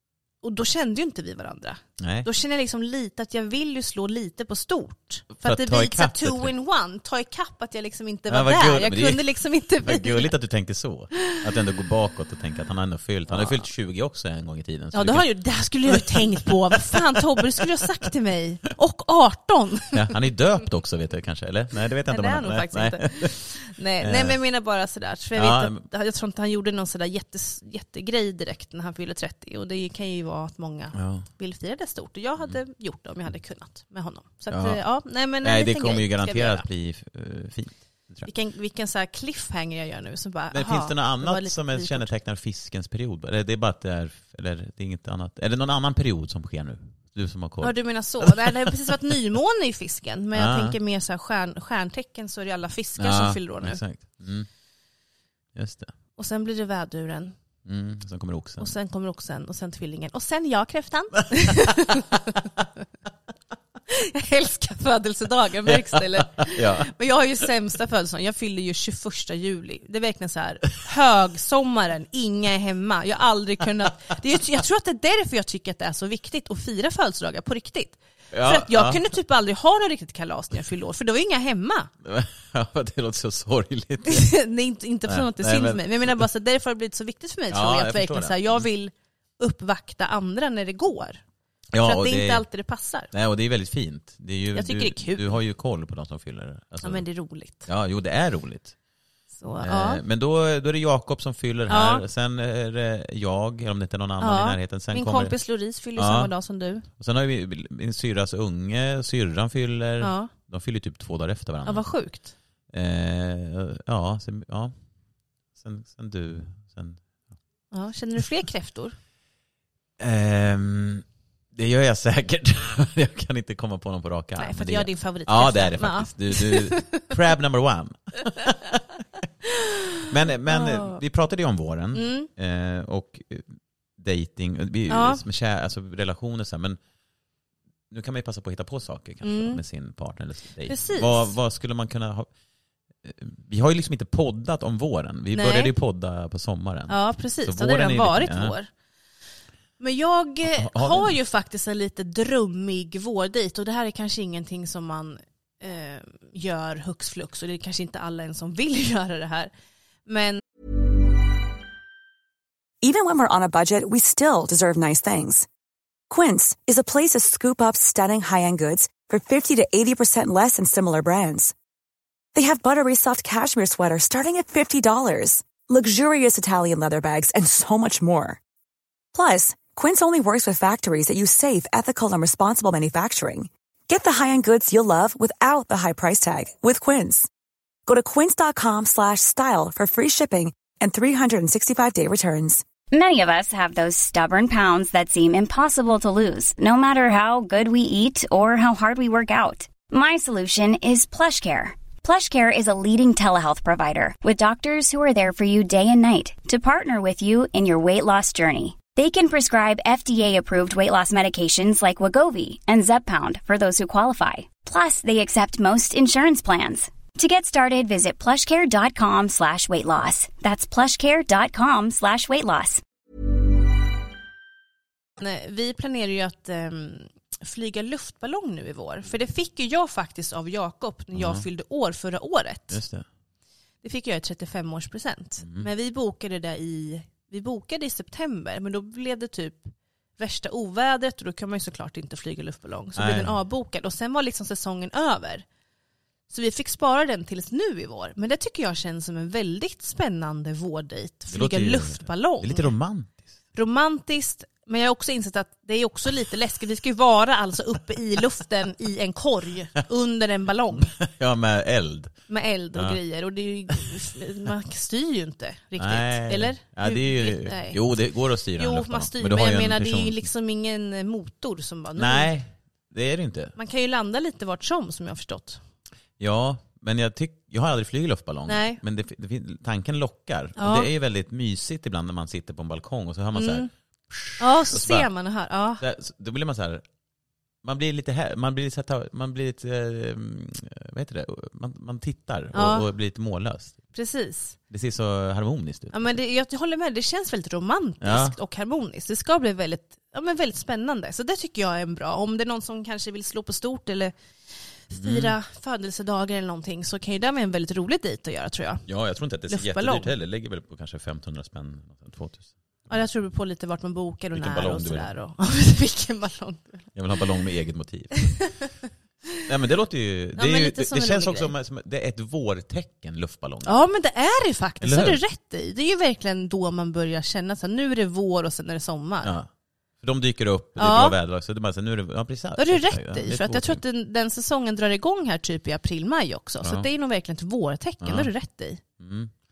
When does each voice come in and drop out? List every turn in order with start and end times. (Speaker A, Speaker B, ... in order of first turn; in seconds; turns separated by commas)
Speaker A: 0.4-10.3, Speaker B: 2.0-2.3, Speaker B: 5.4-6.5, Speaker B: 8.3-9.2, Speaker B: 9.8-15.3, Speaker A: 13.3-13.6, Speaker A: 14.9-20.0, Speaker B: 15.9-17.4, Speaker B: 19.9-23.4, Speaker A: 22.1-36.7, Speaker B: 24.0-24.4, Speaker B: 25.4-25.8, Speaker B: 30.9-31.2, Speaker B: 34.5-34.8, Speaker B: 35.4-38.3, Speaker A: 38.2-42.1, Speaker B: 40.5-48.7, Speaker A: 47.6-53.8, Speaker B: 50.3-50.8, Speaker B: 53.0-54.5, Speaker B: 55.5-55.9, Speaker A: 56.2-57.3, Speaker B: 57.6-58.7, Speaker A: 58.6-62.5, Speaker B: 61.4-62.0, Speaker A: 63.9-81.9, Speaker B: 65.7-66.9, Speaker B: 78.3-79.0, Speaker B: 82.0-84.3, Speaker A: 84.0-91.2, Speaker B: 85.1-86.2, Speaker B: 87.5-88.7, Speaker B: 91.7-92.4, Speaker A: 91.8-93.1, Speaker B: 93.1-97.0, Speaker A: 94.5-95.4, Speaker A: 96.8-97.7, Speaker B: 97.7-98.7, Speaker A: 99.4-100.0, Speaker B: 99.6-105.3, Speaker A: 101.7-102.0, Speaker A: 104.2-106.9, Speaker B: 106.0-106.3, Speaker B: 107.0-111.9, Speaker A: 110.0-110.3, Speaker A: 111.6-112.3, Speaker B: 112.7-114.7, Speaker B: 115.5-117.0, Speaker A: 117.7-119.0, Speaker B: 120.0-128.8, Speaker A: 124.4-127.1, Speaker A: 129.4-131.0, Speaker B: 130.1-136.8, Speaker A: 131.9-132.3, Speaker A: 134.9-135.2, Speaker B: 137.9-142.3, Speaker A: 139.2-139.6, Speaker A: 140.7-141.3, Speaker B: 143.0-148.5, Speaker A: 145.3-145.7, Speaker A: 146.9-148.7, Speaker A: 149.8-159.5, Speaker B: 150.4-151.1, Speaker A: 160.1-160.4, Speaker C: 162.8-165.5, Speaker C: 166.1-171.5, Speaker C: 172.3-178.4, Speaker C: 179.1-187.3, Speaker C: 187.8-192.6, Speaker D: 192.9-222.8, Speaker A: 225.2-232.8, Speaker B: 231.1-231.4, Speaker B: 232.7-233.1, Speaker A: 233.8-245.4, Speaker B: 235.4-235.7, Speaker B: 242.9-243.4, Speaker A: 246.3-252.7, Speaker B: 251.3-253.2, Speaker A: 253.5-260.9, Speaker B: 260.7-262.1, Speaker A: 262.3-267.8, Speaker B: 265.8-270.3, Speaker A: 268.6-272.3, Speaker B: 272.0-273.5, Speaker A: 273.6-275.6, Speaker B: 276.2-285.1, Speaker A: 278.5-278.8, Speaker A: 280.6-280.9, Speaker A: 283.3-283.7, Speaker A: 284.4-285.8, Speaker B: 285.8-286.8, Speaker B: 287.6-293.8, Speaker A: 292.5-292.9, Speaker A: 293.9-294.6, Speaker B: 294.7-296.2, Speaker A: 295.9-304.1, Speaker B: 298.0-298.3, Speaker A: 304.8-308.8, Speaker B: 304.9-305.4, Speaker B: 308.9-313.0, Speaker A: 309.5-310.1, Speaker A: 312.9-316.9, Speaker B: 314.3-315.1, Speaker B: 316.9-318.4, Speaker A: 318.4-318.7, Speaker B: 319.4-323.8, Speaker A: 320.4-321.5, Speaker A: 323.6-329.3, Speaker B: 324.8-325.2, Speaker B: 329.2-329.5, Speaker B: 330.0-333.8, Speaker A: 330.8-331.1, Speaker A: 332.6-338.8, Speaker B: 336.6-336.9, Speaker B: 338.0-338.3, Speaker B: 339.0-339.3